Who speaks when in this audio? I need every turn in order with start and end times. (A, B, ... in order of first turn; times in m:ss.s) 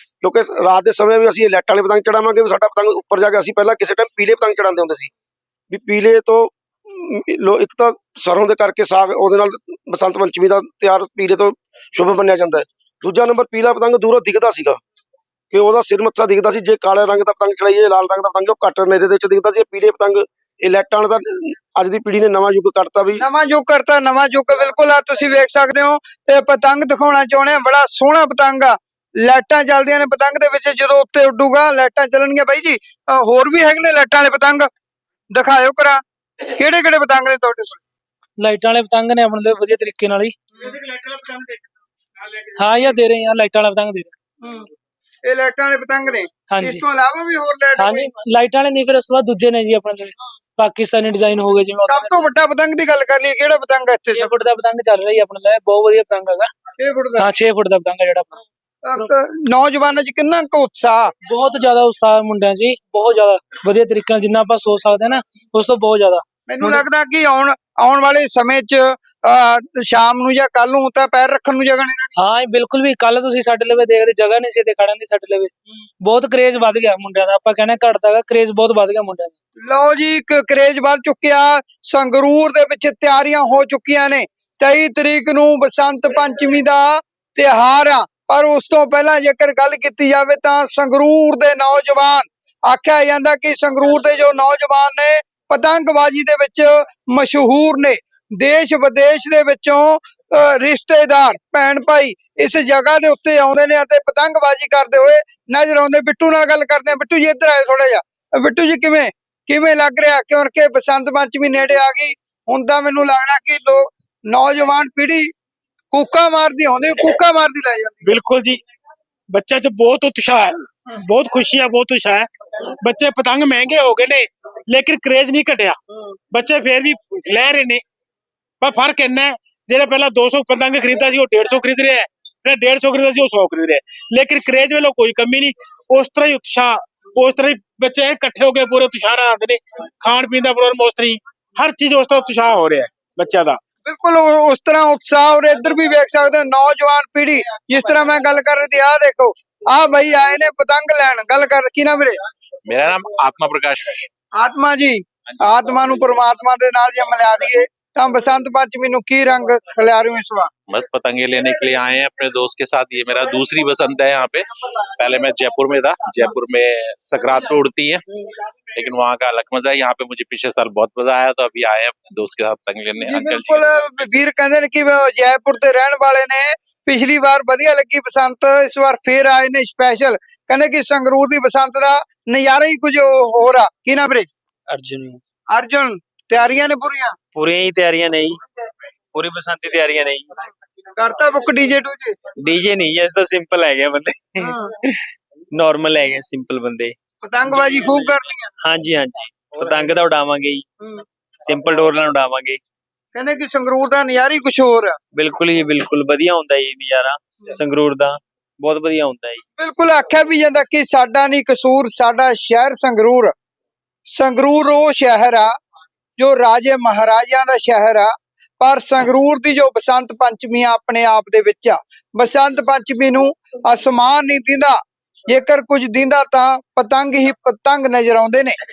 0:00.2-0:05.1 A
0:05.7-0:14.8 A
0:15.5-0:23.2 A
0:23.2-0:34.7 B
0:35.3-0:37.8 B
0:38.4-0:40.4 C
0:40.6-0:41.7 D
0:42.2-0:42.5 D
0:42.6-0:44.1 C
0:45.2-0:48.1 B
0:46.5-0:46.8 C
0:47.8-0:52.3 C
0:51.8-0:54.4 B
0:54.1-0:56.5 C
0:56.8-0:57.3 B
0:57.2-0:58.4 C
0:58.8-1:01.1 B
1:01.2-1:06.8 C
1:06.5-1:12.1 B
1:12.2-1:19.3 C
1:19.6-1:55.3 B
1:55.9-1:58.0 B
1:58.0-1:58.6 D
1:59.3-2:05.8 D
2:06.3-2:07.8 D
2:08.6-2:23.6 D
2:23.9-2:32.2 B
2:32.7-2:34.1 E
2:34.4-2:40.5 B
2:40.7-2:44.5 E
2:45.0-2:48.0 E
2:48.8-2:53.6 E
2:53.0-3:04.3 B
3:04.7-3:05.2 F
3:05.5-3:07.2 B
3:07.3-3:08.4 F
3:09.1-3:10.4 F
3:11.0-3:12.2 B
3:12.4-3:17.0 F
3:14.4-3:14.7 B
3:17.2-3:18.5 B
3:17.5-3:20.6 F
3:21.4-3:22.6 F
3:23.2-3:25.0 B
3:25.1-3:29.4 F
3:29.6-3:33.3 B
3:34.1-3:35.5 B
3:36.2-3:44.8 B
3:45.3-3:48.6 B